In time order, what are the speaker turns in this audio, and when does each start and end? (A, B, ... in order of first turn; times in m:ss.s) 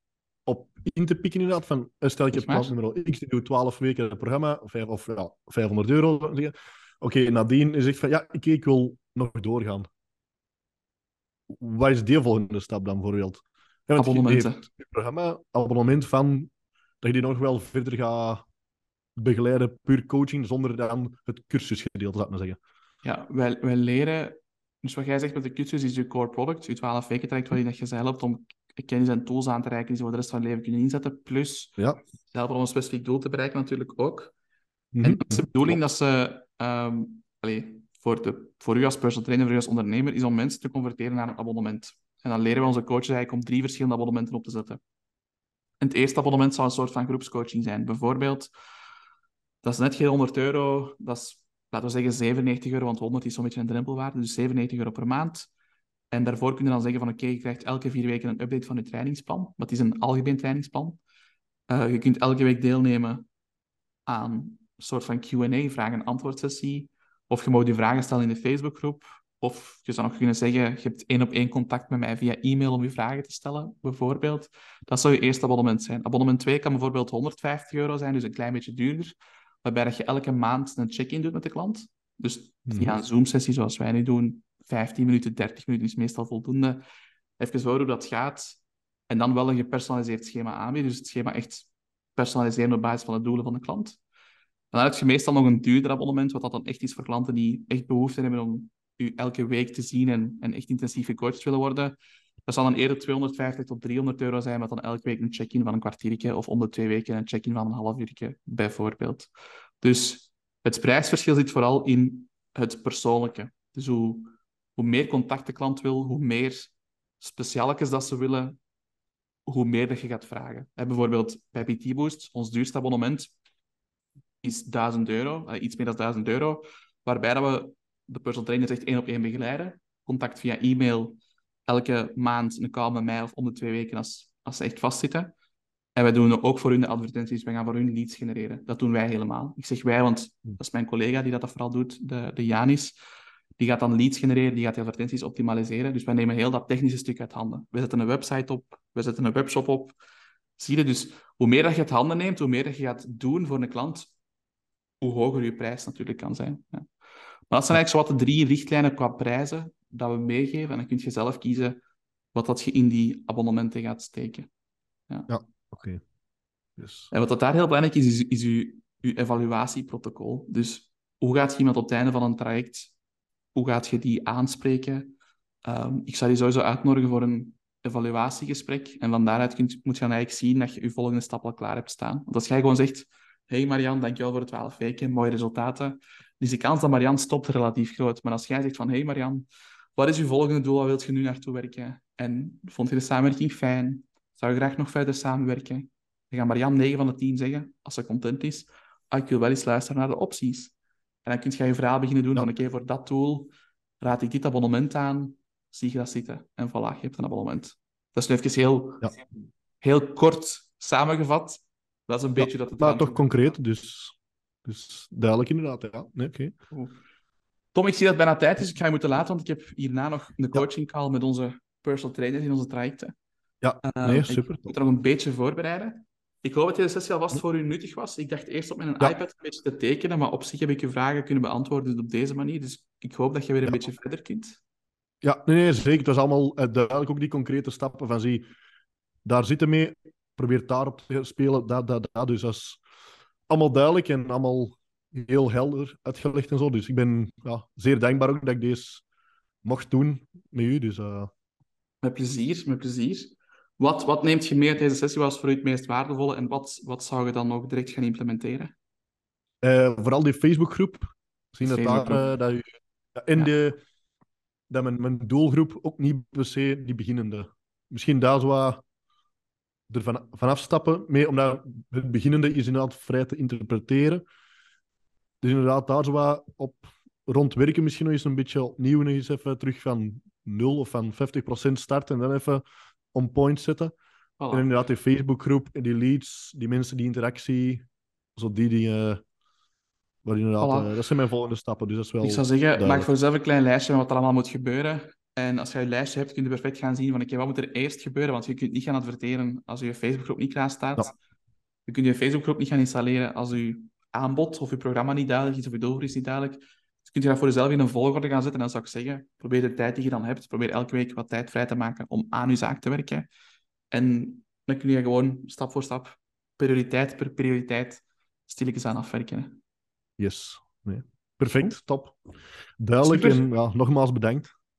0:00.4-0:09.9 A
0:02.3-0:02.7 B
0:11.5-0:16.5 A
0:14.0-0:14.6 B
0:17.0-0:18.4 A
0:19.2-0:22.6 A
0:23.0-0:31.8 B
0:32.3-0:34.3 B
0:34.9-0:35.7 A
0:35.0-0:44.8 B
0:45.8-0:48.5 B
0:49.6-0:55.5 B
0:56.1-1:01.0 B
1:01.7-1:03.2 B
1:04.1-1:26.8 B
1:22.7-1:22.9 A
1:27.4-1:34.0 B
1:34.7-1:49.3 B
1:49.8-1:58.6 B
1:59.5-2:03.3 B
2:04.4-2:15.3 B
2:16.0-2:23.0 B
2:23.6-2:30.0 B
2:30.6-2:34.1 B
2:35.0-2:36.9 B
2:37.5-2:41.8 B
2:42.3-2:44.5 B
2:45.3-2:46.0 A
2:46.8-2:47.1 A
2:47.1-2:52.9 B
2:53.5-2:55.1 B
2:55.6-3:09.4 B
3:10.0-3:20.7 B
3:21.2-3:29.2 B
3:29.8-3:33.3 B
3:32.4-3:36.5 A
3:36.7-3:37.0 B
3:37.7-3:43.1 B
3:43.6-3:44.7 A
3:43.8-3:54.6 B
3:55.2-3:58.4 A
3:59.2-4:02.8 A
4:03.5-4:09.0 A
4:09.6-4:11.3 A
4:12.0-4:18.7 B
4:19.6-4:23.8 A
4:21.6-4:22.3 B
4:24.7-4:28.8 A
4:29.9-4:34.2 A
4:35.4-4:42.6 A
4:43.1-4:43.9 A
4:44.4-4:44.7 B
4:44.5-4:47.8 A
4:48.4-4:49.2 A
4:50.2-4:53.1 A
4:50.6-4:50.9 B
4:52.2-5:01.1 B
5:01.8-5:13.3 B
5:13.9-5:19.6 B
5:20.2-5:22.2 A
5:22.8-5:24.5 A
5:23.0-5:23.5 B